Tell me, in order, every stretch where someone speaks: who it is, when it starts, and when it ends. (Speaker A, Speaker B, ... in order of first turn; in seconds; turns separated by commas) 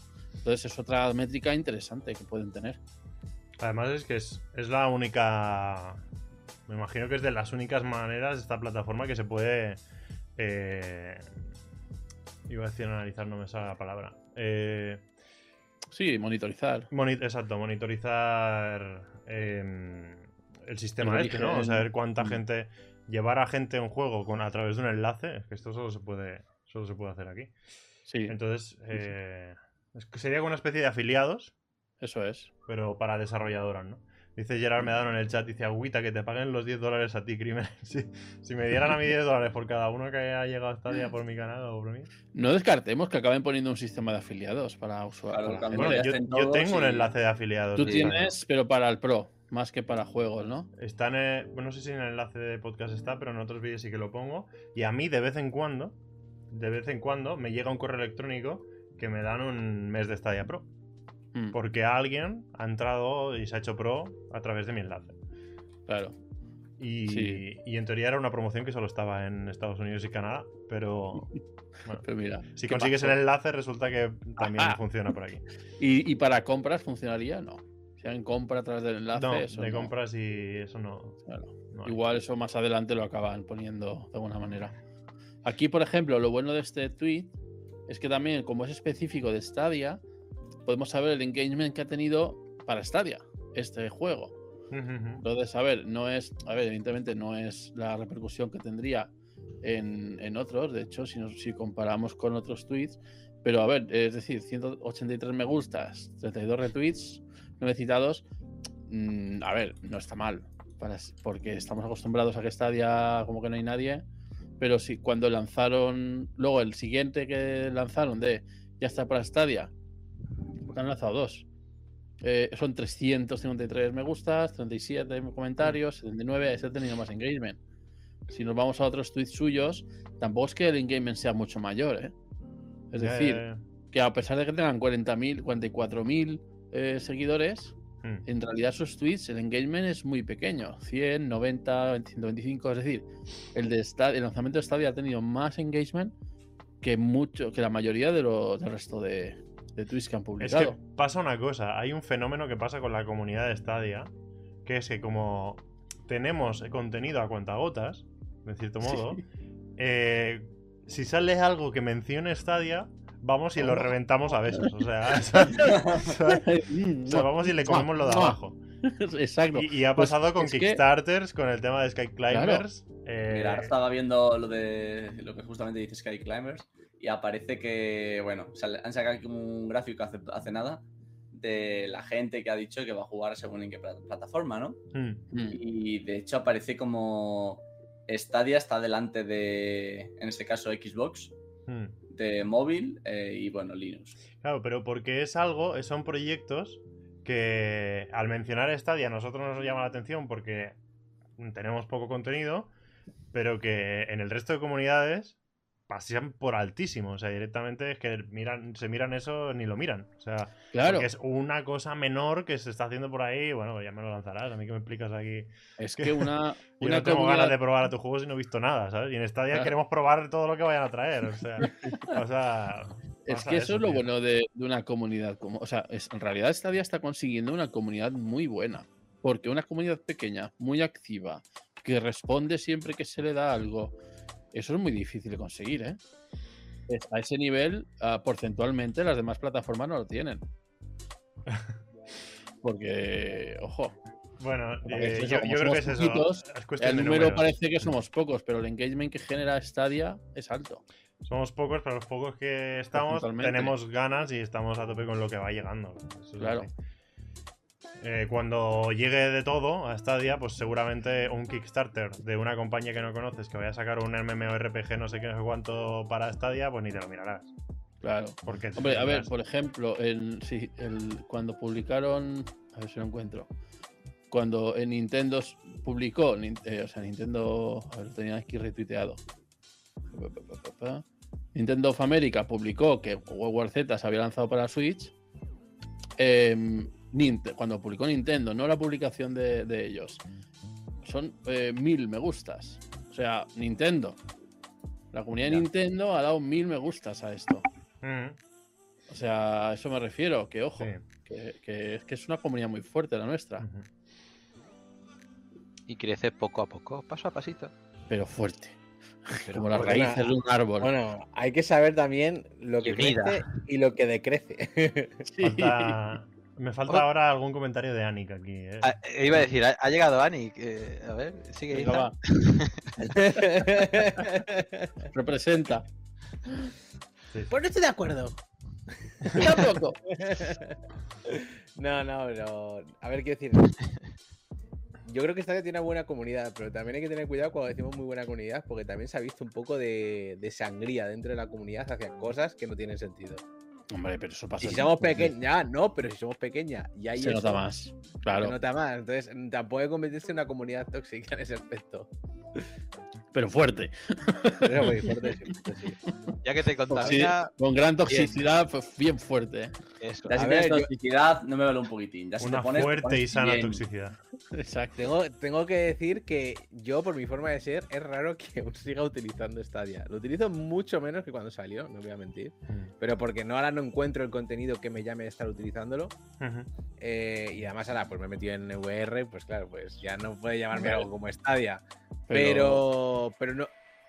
Speaker A: 0.4-2.8, Speaker B: 3.6-6.0, Speaker B: 6.7-9.8, Speaker B: 10.4-11.3, Speaker B: 12.5-15.0, Speaker A: 15.9-16.9, Speaker B: 16.9-27.5, Speaker A: 21.0-22.4, Speaker A: 28.1-28.3, Speaker B: 28.3-31.5, Speaker A: 32.0-32.5, Speaker B: 32.6-42.1, Speaker A: 42.3-46.1, Speaker C: 45.3-47.1, Speaker B: 45.7-48.4, Speaker A: 47.8-50.7, Speaker C: 47.8-48.1, Speaker B: 50.7-56.0, Speaker B: 56.5-60.7, Speaker B: 61.5-65.2, Speaker A: 65.9-66.2, Speaker B: 66.8-71.3, Speaker A: 67.1-67.4, Speaker B: 71.8-75.4, Speaker A: 72.0-73.2, Speaker A: 74.4-74.8, Speaker A: 75.8-79.9, Speaker B: 79.1-81.2, Speaker A: 81.2-84.7, Speaker B: 81.7-82.0, Speaker A: 85.4-87.3, Speaker A: 87.9-90.0, Speaker A: 90.7-94.3, Speaker B: 94.7-95.2, Speaker A: 95.2-99.1, Speaker A: 99.6-108.2, Speaker A: 108.9-114.0, Speaker A: 114.6-119.7, Speaker A: 120.7-121.5, Speaker A: 122.2-127.6, Speaker A: 128.3-132.1, Speaker A: 132.9-146.1, Speaker B: 133.0-133.6, Speaker A: 146.8-150.8, Speaker B: 150.4-154.1, Speaker B: 154.6-159.2, Speaker A: 158.8-159.2, Speaker B: 159.8-166.5, Speaker A: 163.6-163.9, Speaker A: 165.4-170.8, Speaker C: 165.6-166.1, Speaker B: 167.0-168.6, Speaker B: 169.5-173.7, Speaker A: 172.3-172.6, Speaker C: 173.3-184.8, Speaker B: 184.9-185.2, Speaker A: 185.3-185.6, Speaker C: 185.5-191.3, Speaker B: 191.7-191.9, Speaker C: 192.1-194.2, Speaker B: 194.4-200.8, Speaker B: 201.4-202.7, Speaker B: 203.3-205.4, Speaker B: 205.9-224.1, Speaker A: 210.7-211.1, Speaker A: 215.8-217.6, Speaker A: 221.6-222.1, Speaker A: 223.2-233.9, Speaker A: 234.5-236.0, Speaker A: 236.9-240.4, Speaker B: 241.5-241.7, Speaker A: 242.6-243.9, Speaker B: 244.4-247.5, Speaker A: 244.8-250.8, Speaker B: 251.2-256.7, Speaker A: 252.9-253.7, Speaker A: 256.4-256.7, Speaker B: 258.0-267.5, Speaker A: 268.0-273.5, Speaker B: 268.4-269.3, Speaker A: 274.3-279.2, Speaker A: 280.1-285.1, Speaker A: 286.2-290.2, Speaker A: 291.0-294.2, Speaker A: 295.1-297.6, Speaker B: 298.0-298.4, Speaker A: 299.1-303.7, Speaker B: 300.8-301.0, Speaker B: 303.6-303.9, Speaker D: 305.9-307.7, Speaker A: 308.1-308.8, Speaker A: 309.3-310.9, Speaker D: 309.4-310.3, Speaker E: 309.7-310.3, Speaker E: 310.8-315.2, Speaker D: 312.8-313.5, Speaker A: 315.3-316.0, Speaker B: 315.4-318.9, Speaker D: 318.8-322.9, Speaker A: 321.7-322.2, Speaker A: 323.0-324.2, Speaker E: 323.1-324.9, Speaker A: 325.1-325.9, Speaker E: 327.5-328.4, Speaker E: 329.2-333.8, Speaker A: 329.4-330.0, Speaker E: 335.0-343.4, Speaker A: 343.9-345.3, Speaker E: 344.6-347.6, Speaker A: 347.1-348.6, Speaker E: 348.3-352.6, Speaker A: 353.3-355.1, Speaker E: 354.6-356.0, Speaker D: 356.4-357.5, Speaker A: 356.9-359.7, Speaker D: 358.1-358.4, Speaker D: 360.0-360.3, Speaker C: 360.3-363.8, Speaker E: 360.3-360.9, Speaker B: 362.4-364.2, Speaker A: 364.5-365.0, Speaker E: 365.0-376.1, Speaker B: 376.4-376.7, Speaker E: 377.0-383.7, Speaker A: 380.8-381.1, Speaker A: 382.3-382.9